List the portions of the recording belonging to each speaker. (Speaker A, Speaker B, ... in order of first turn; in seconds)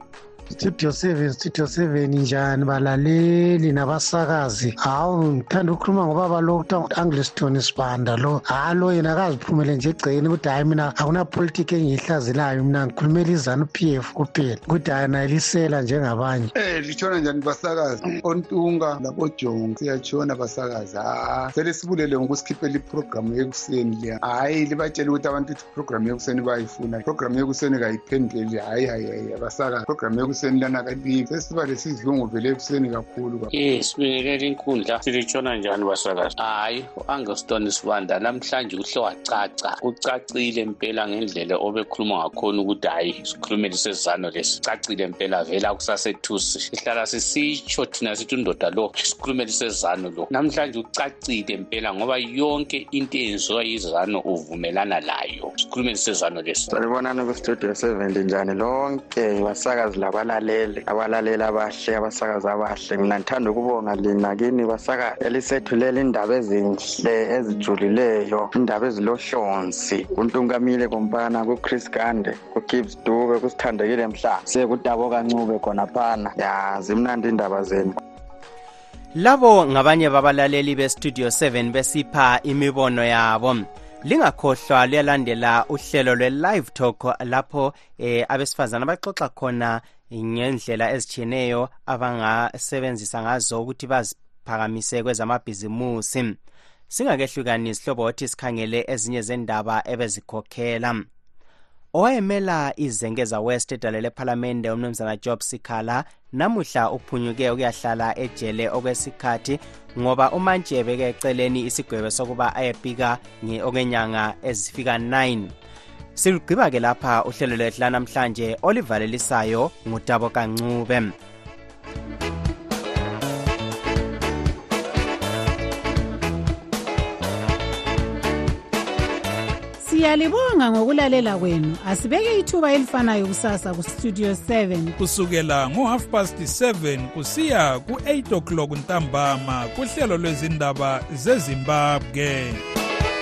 Speaker A: 0.5-16.5
Speaker B: 16.6-33.5
Speaker C: 33.5-56.7
Speaker D: 56.7-78.0
Speaker E: 79.2-96.4, 96.9-101.1, 101.9-115.5, 116.2-121.2
Speaker F: 129.8-134.9
Speaker G: 135.0-142.6